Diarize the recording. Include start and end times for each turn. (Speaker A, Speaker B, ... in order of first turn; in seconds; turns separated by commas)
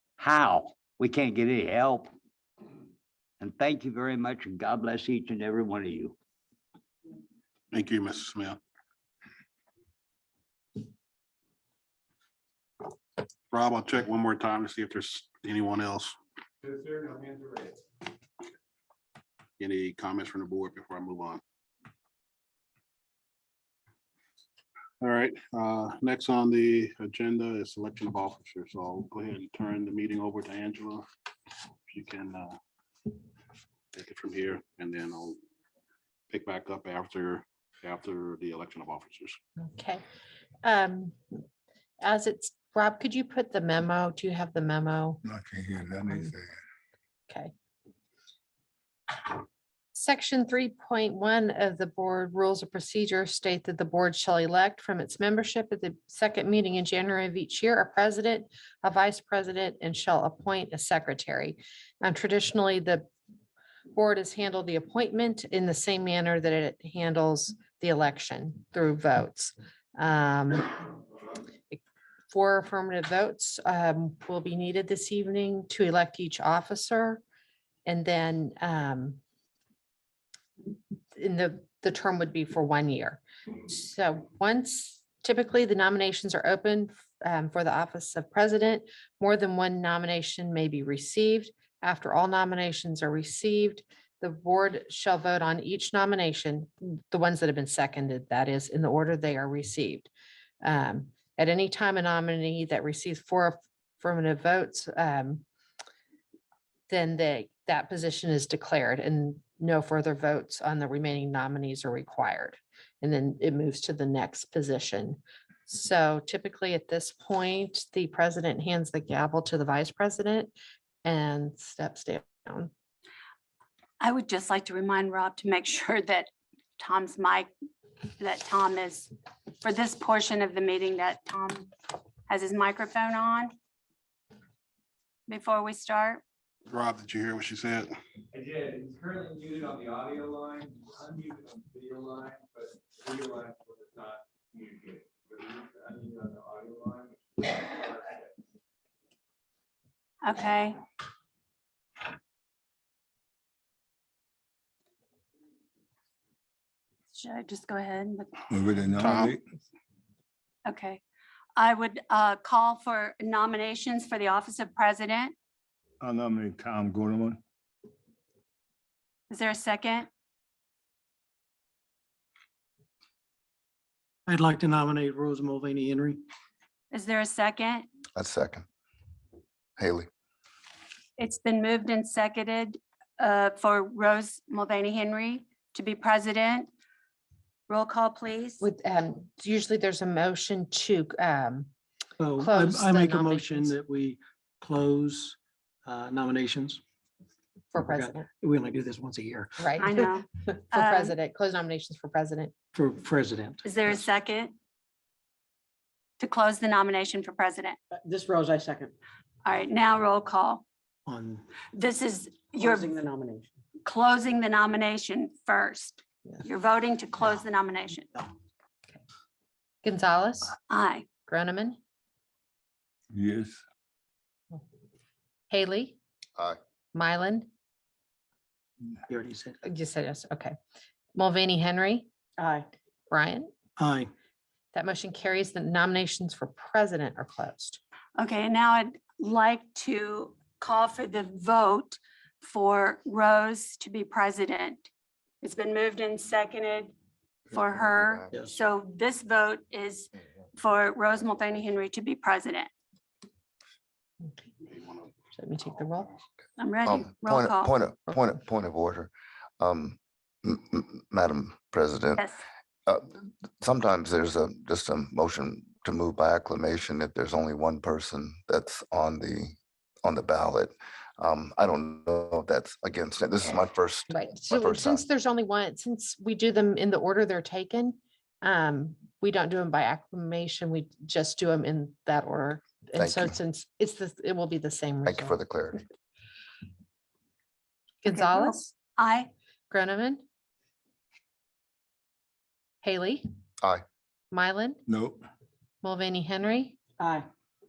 Speaker A: 0.2-2.1, Speaker A: 3.4-6.2, Speaker B: 7.7-8.6, Speaker B: 13.5-16.1, Speaker C: 16.6-17.8, Speaker B: 19.6-21.4, Speaker B: 25.0-31.1, Speaker B: 31.9-32.6, Speaker B: 33.9-35.4, Speaker B: 36.3-39.4, Speaker D: 39.6-40.0, Speaker D: 40.6-41.2, Speaker D: 42.0-45.2, Speaker E: 45.2-46.5, Speaker D: 49.9-63.0, Speaker D: 63.9-70.7, Speaker D: 71.7-77.2, Speaker D: 77.8-79.2, Speaker D: 81.2-100.1, Speaker D: 100.6-105.4, Speaker D: 106.9-120.5, Speaker D: 121.0-122.7, Speaker F: 124.0-127.5, Speaker F: 128.2-131.7, Speaker F: 132.3-133.5, Speaker F: 135.3-136.2, Speaker B: 136.7-137.9, Speaker C: 138.3-148.2, Speaker F: 150.2-150.8, Speaker F: 157.1-158.3, Speaker E: 158.5-159.4, Speaker F: 159.0-159.3, Speaker F: 160.7-161.0, Speaker F: 161.6-165.3, Speaker E: 166.0-167.4, Speaker F: 169.3-170.1, Speaker G: 174.3-176.2, Speaker F: 176.9-177.9, Speaker H: 178.2-178.7, Speaker H: 179.8-180.1, Speaker F: 181.2-186.7, Speaker F: 187.7-188.6, Speaker D: 188.6-191.7, Speaker G: 192.2-196.8, Speaker D: 192.4-193.8, Speaker D: 197.7-198.3, Speaker G: 197.8-199.6, Speaker D: 199.6-202.5, Speaker F: 199.8-201.1, Speaker G: 202.7-204.0, Speaker F: 203.6-204.5, Speaker F: 206.2-207.8, Speaker I: 207.9-208.9, Speaker F: 209.4-210.6, Speaker G: 211.1-211.4, Speaker F: 211.7-213.0, Speaker I: 212.5-213.5, Speaker F: 213.8-218.1, Speaker D: 219.8-220.6, Speaker F: 220.7-221.1, Speaker D: 221.3-221.8, Speaker E: 223.1-223.6, Speaker D: 225.5-226.0, Speaker D: 226.9-227.5, Speaker G: 229.1-229.6, Speaker D: 229.6-230.6, Speaker D: 231.2-232.1, Speaker D: 233.1-233.5, Speaker G: 233.8-234.1, Speaker D: 234.7-237.8, Speaker F: 238.2-244.9, Speaker F: 245.4-246.9, Speaker F: 247.5-252.7, Speaker B: 254.6-255.1, Speaker D: 255.3-256.1, Speaker F: 256.6-257.7, Speaker H: 256.9-262.3, Speaker F: 262.2-262.4, Speaker H: 262.9-275.1, Speaker D: 274.1-285.4, Speaker H: 283.0-283.4, Speaker H: 285.1-285.8, Speaker D: 288.0-288.8, Speaker F: 288.1-289.3, Speaker D: 289.7-290.2, Speaker D: 292.8-293.2, Speaker D: 294.3-294.8, Speaker E: 294.9-295.2, Speaker D: 295.8-296.8, Speaker I: 297.0-297.3